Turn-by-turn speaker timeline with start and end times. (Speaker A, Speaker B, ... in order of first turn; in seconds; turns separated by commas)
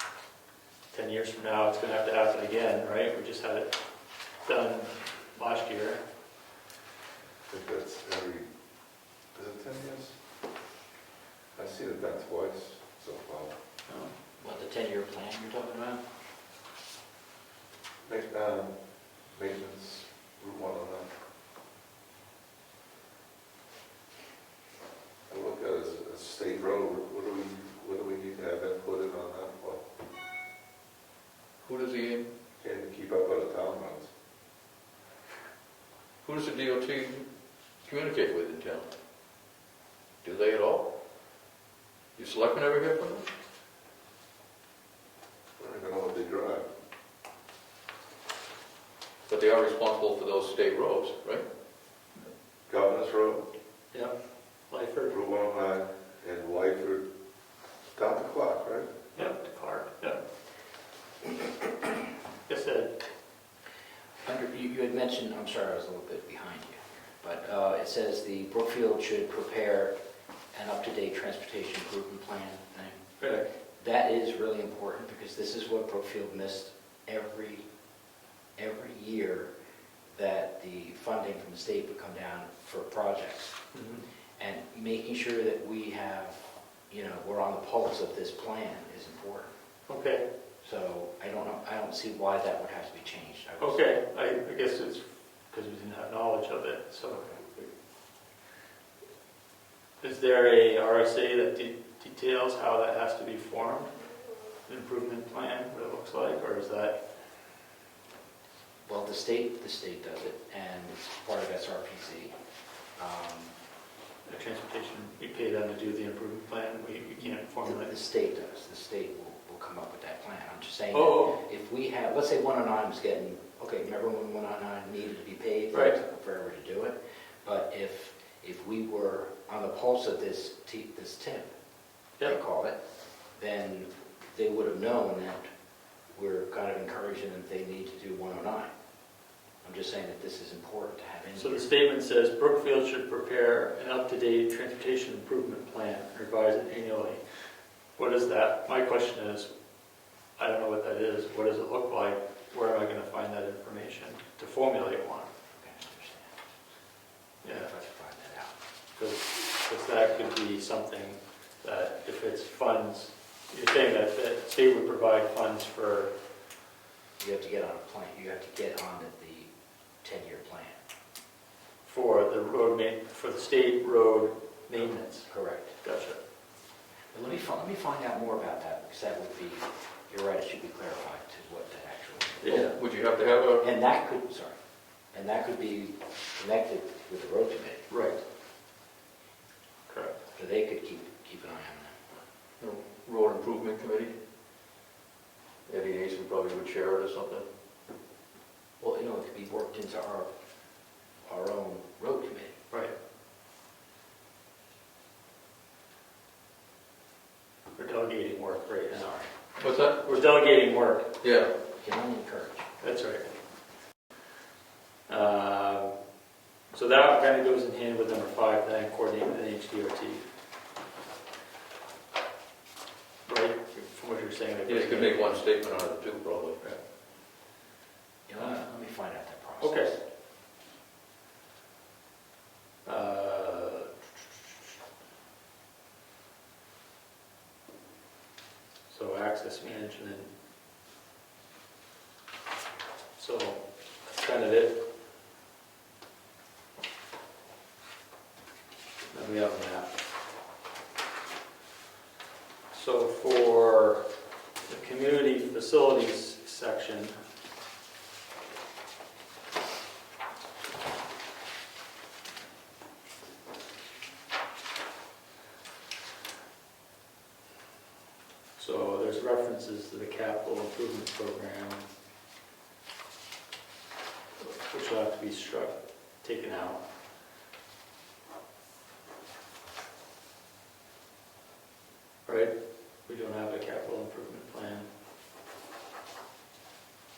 Speaker A: 0.9-3.7, Speaker A: 4.4-6.0, Speaker B: 7.5-8.5, Speaker B: 9.3-10.2, Speaker B: 11.5-13.6, Speaker A: 13.9-14.2, Speaker C: 14.4-16.0, Speaker B: 18.0-21.1, Speaker B: 25.3-29.8, Speaker D: 31.6-32.3, Speaker B: 32.6-34.1, Speaker D: 36.2-37.3, Speaker D: 37.8-38.9, Speaker D: 40.2-40.9, Speaker D: 42.1-43.3, Speaker B: 45.6-46.7, Speaker D: 49.3-51.5, Speaker B: 52.7-53.5, Speaker A: 54.7-55.1, Speaker B: 55.1-57.1, Speaker B: 57.9-59.0, Speaker A: 59.1-60.2, Speaker A: 62.5-63.0, Speaker C: 64.2-70.0, Speaker C: 70.5-73.0, Speaker A: 73.2-73.5, Speaker C: 73.8-77.6, Speaker C: 78.6-79.5, Speaker C: 80.2-83.6, Speaker A: 83.7-84.0, Speaker C: 84.4-89.5, Speaker A: 89.9-90.2, Speaker C: 90.6-93.9, Speaker A: 93.6-97.7, Speaker A: 100.0-103.9, Speaker A: 104.7-107.0, Speaker C: 108.8-112.3, Speaker C: 113.0-113.5, Speaker A: 114.3-117.9, Speaker C: 117.6-131.5, Speaker A: 120.9-121.4, Speaker C: 132.2-132.8, Speaker C: 133.3-135.4, Speaker C: 136.1-138.7, Speaker C: 139.6-141.7, Speaker A: 141.3-147.2, Speaker A: 148.0-149.5, Speaker A: 150.4-155.3, Speaker C: 155.5-156.3, Speaker A: 157.4-157.7, Speaker C: 157.4-158.5, Speaker A: 158.9-166.1, Speaker C: 167.2-169.5, Speaker C: 170.0-170.8, Speaker A: 171.8-175.3, Speaker C: 175.2-175.8, Speaker A: 175.8-176.2, Speaker C: 177.1-182.7, Speaker D: 182.4-183.7, Speaker A: 182.4-182.7, Speaker C: 183.6-184.6, Speaker C: 185.1-187.9, Speaker A: 187.9-188.2, Speaker A: 189.9-190.2, Speaker C: 190.3-191.9, Speaker D: 192.6-194.1, Speaker D: 195.7-197.4, Speaker C: 198.8-200.3, Speaker C: 201.2-202.5, Speaker A: 207.8-209.1, Speaker C: 208.9-209.3, Speaker D: 209.6-210.0, Speaker A: 210.0-211.1, Speaker D: 211.2-211.5, Speaker C: 211.8-212.7, Speaker A: 212.8-213.3, Speaker A: 215.1-215.9, Speaker A: 216.7-220.2, Speaker A: 223.2-225.3, Speaker D: 224.7-226.6, Speaker C: 228.3-230.0, Speaker A: 229.6-229.9, Speaker A: 232.8-233.9, Speaker A: 238.9-240.3, Speaker A: 243.2-243.6, Speaker A: 244.2-244.8, Speaker A: 249.1-249.9, Speaker A: 252.7-254.1, Speaker A: 254.7-257.2, Speaker A: 268.6-271.8, Speaker A: 274.4-276.8, Speaker A: 282.2-282.5, Speaker A: 283.1-284.9